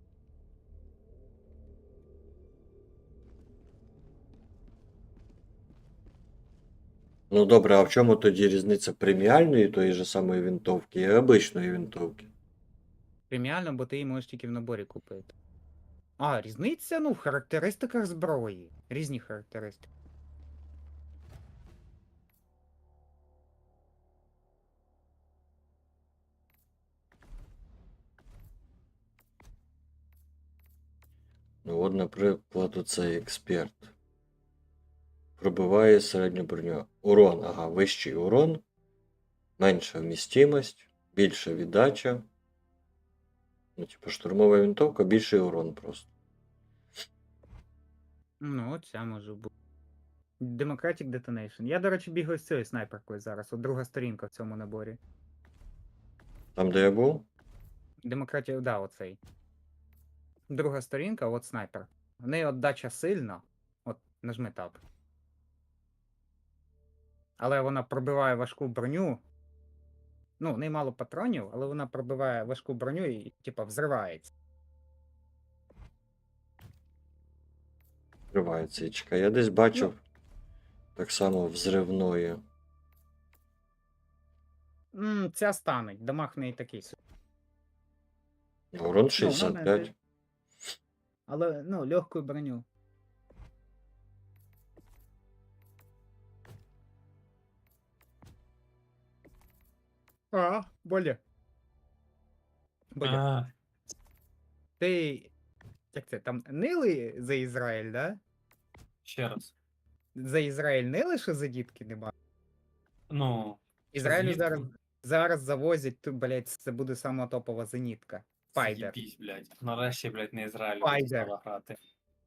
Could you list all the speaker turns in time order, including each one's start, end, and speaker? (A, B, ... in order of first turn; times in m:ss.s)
0:07.3-0:12.3 A
0:13.3-0:15.3 B
0:16.2-0:19.9 B
0:31.6-0:33.9 A
0:35.4-0:38.6 A
0:39.6-0:42.3 A
0:43.8-0:46.1 A
0:48.4-0:49.5 B
0:50.4-0:55.0 B
0:56.6-0:57.3 A
0:58.1-0:59.2 B
1:00.5-1:04.8 B
1:07.4-1:09.2 B
1:10.4-1:14.3 B
1:18.3-1:20.0 A
1:21.0-1:22.4 A
1:24.9-1:27.0 B
1:28.7-1:29.9 A
1:29.2-1:29.9 B
1:31.3-1:32.7 B
1:40.3-1:41.2 B
1:43.0-1:43.2 B
1:43.0-1:43.5 C
1:44.8-1:45.3 B
1:45.9-1:48.2 B
1:49.0-1:49.5 C
1:50.2-1:52.1 B
1:53.1-1:54.6 C
1:53.9-1:59.0 B
1:58.5-2:01.8 C
2:00.8-2:01.3 B